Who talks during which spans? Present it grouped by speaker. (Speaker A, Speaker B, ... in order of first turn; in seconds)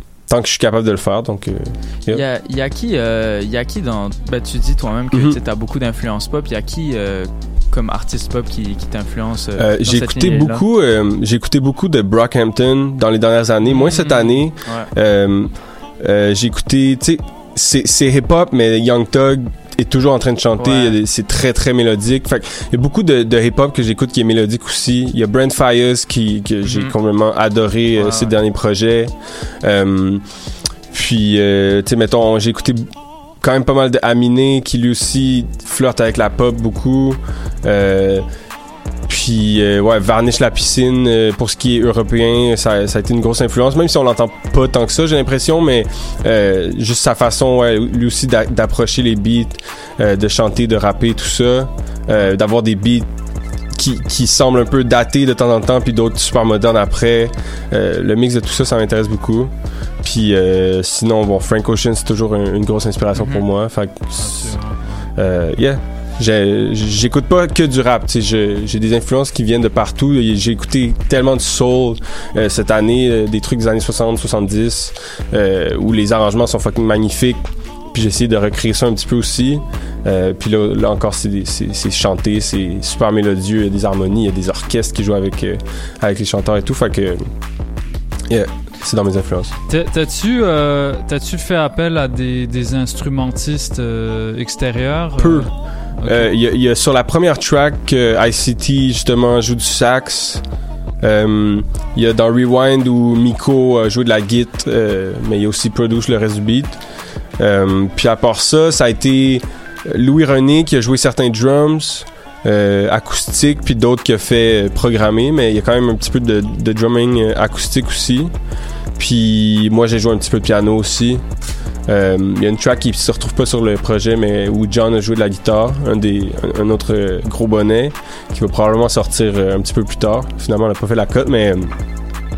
Speaker A: 0.3-2.2, 5.1-5.4, 9.6-15.5, 16.0-29.1, 29.6-30.2, 30.9-32.8, 33.4-38.2, 39.1-53.1, 53.8-59.5, 60.0-64.5, 65.2-77.4, 77.9-87.2, 88.3-89.5, 95.2-95.5, 96.1-100.4, 101.0-106.8, 107.4-118.3, 119.0-121.2, 121.9-131.7
Speaker B: 2.1-10.6, 13.8-14.2, 20.6-21.0, 26.6-26.9, 28.0-28.4, 63.1-63.5
Speaker C: 64.2-65.0, 89.7-95.5, 96.0-96.3